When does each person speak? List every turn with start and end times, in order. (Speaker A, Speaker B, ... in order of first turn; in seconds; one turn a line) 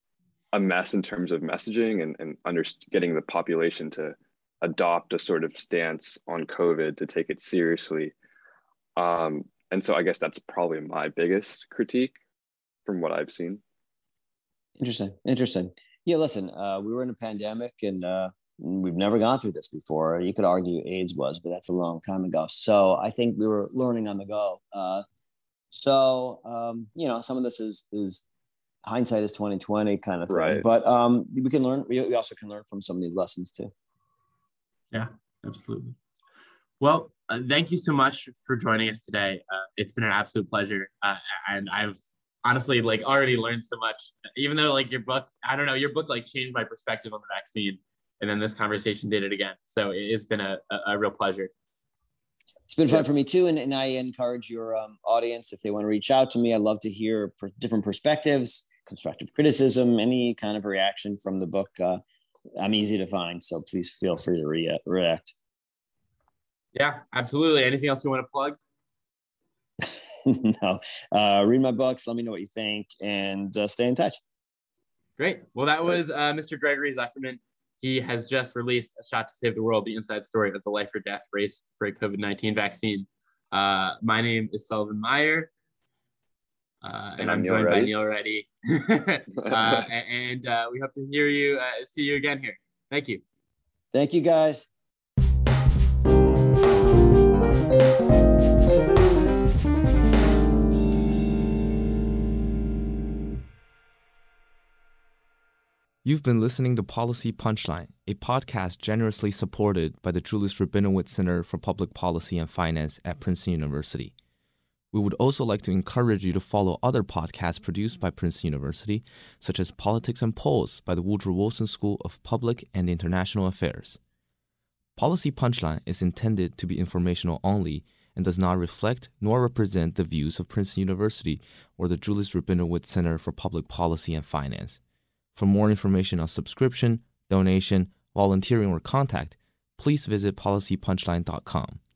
Speaker A: 0.5-8.1
Speaker A: 9.0-12.2
Speaker A: 12.9-13.6
Speaker B: 14.8-25.0
Speaker B: 25.7-28.2
Speaker B: 28.9-33.7
Speaker A: 30.3-30.6
Speaker C: 34.9-36.0
Speaker C: 36.8-51.5
Speaker B: 52.7-62.0
Speaker B: 62.6-65.3
Speaker C: 66.7-68.6
Speaker B: 69.8-74.2
Speaker C: 75.2-85.5
Speaker C: 86.8-93.2
Speaker A: 87.2-87.9
Speaker A: 89.4-89.8
Speaker B: 93.9-94.7
Speaker D: 106.0-114.1
Speaker D: 114.9-124.0
Speaker D: 125.0-134.8
Speaker D: 135.3-141.8